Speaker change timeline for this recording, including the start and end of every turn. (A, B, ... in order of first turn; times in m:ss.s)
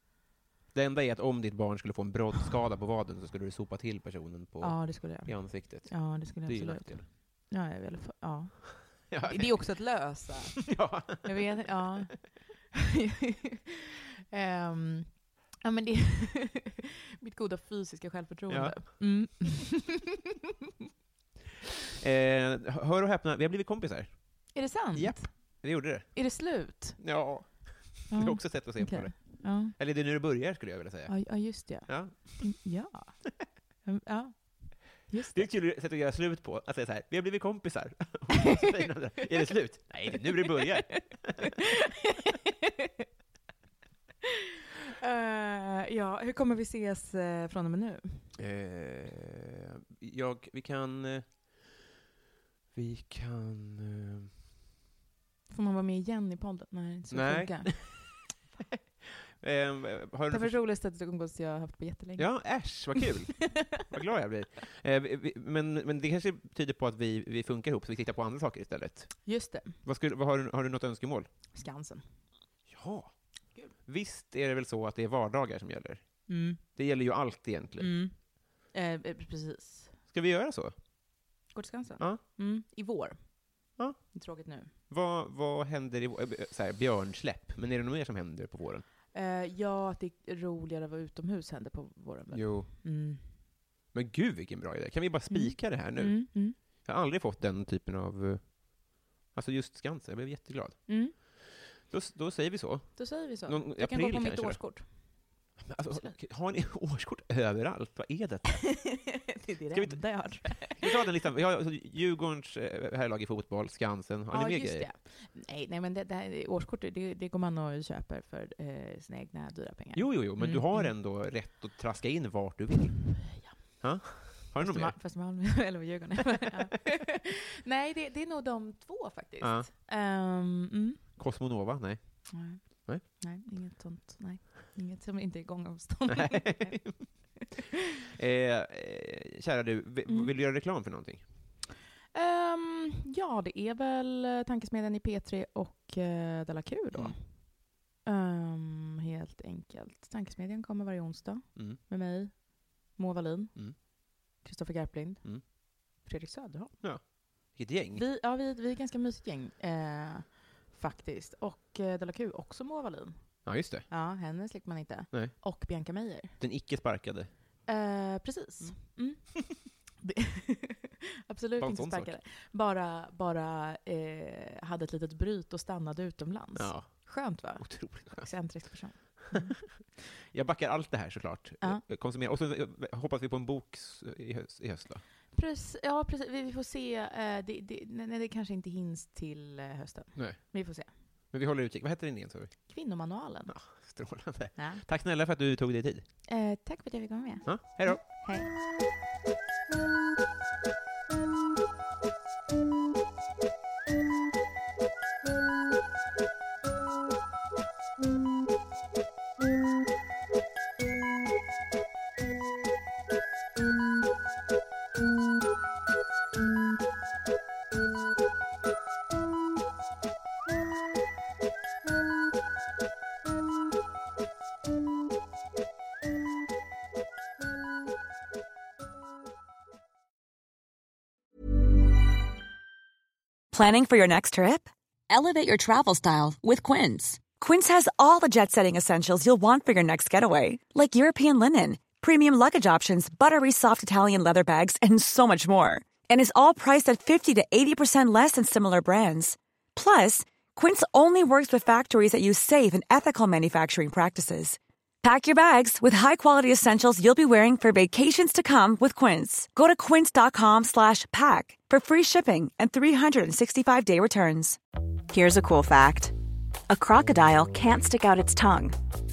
0:00.7-0:07.0 A
0:04.6-0:20.1 B
0:09.1-0:10.0 A
0:10.6-0:11.4 A
0:18.5-0:19.2 A
0:22.0-0:32.5 A
0:24.5-0:27.5 B
0:28.1-0:29.8 B
0:31.1-0:35.5 B
0:35.3-0:41.5 A
0:40.1-0:42.9 B
0:44.9-0:48.3 B
0:48.4-0:51.8 A
0:52.7-0:54.3 A
0:55.5-0:58.3 B
0:57.1-0:58.2 A
0:59.2-1:00.6 A
1:00.3-1:03.8 B
1:02.2-1:11.3 A
1:09.2-1:09.8 B
1:11.5-1:12.0 B
1:12.7-1:13.2 A
1:13.8-1:17.9 A
1:16.3-1:16.6 B
1:17.8-1:20.0 B
1:20.1-1:20.7 A
1:21.5-1:24.7 B
1:23.8-1:24.1 A
1:24.9-1:28.9 A
1:29.1-1:33.3 B
1:32.3-1:32.7 A
1:33.9-1:44.6 A
1:35.3-1:36.6 B
1:40.9-1:41.1 B
1:43.0-1:45.3 B
1:45.6-1:49.0 A
1:48.6-1:51.0 B
1:49.7-1:54.9 A
1:54.3-2:00.9 B
1:59.9-2:04.9 A
2:03.2-2:11.0 B
2:09.4-2:09.7 A
2:11.2-2:13.0 A
2:12.3-2:17.6 B
2:16.1-2:17.0 A
2:18.2-2:21.2 A
2:20.1-2:20.3 B
2:22.1-2:36.8 B
2:26.9-2:27.2 A
2:36.8-2:38.0 A
2:37.9-2:46.4 B
2:43.4-2:43.9 A
2:45.1-2:45.4 A
2:46.4-2:47.3 A
2:47.7-2:59.6 B
2:51.6-2:52.2 A
2:56.5-3:05.0 A
3:05.3-3:10.9 B
3:10.2-3:10.7 A
3:11.3-3:12.7 A
3:12.7-3:13.7 B
3:13.5-3:16.1 A
3:14.5-3:14.8 B
3:16.3-3:18.5 B
3:17.4-3:18.0 A
3:53.5-4:24.6 C
4:25.1-4:26.1 D
4:26.7-4:28.8 D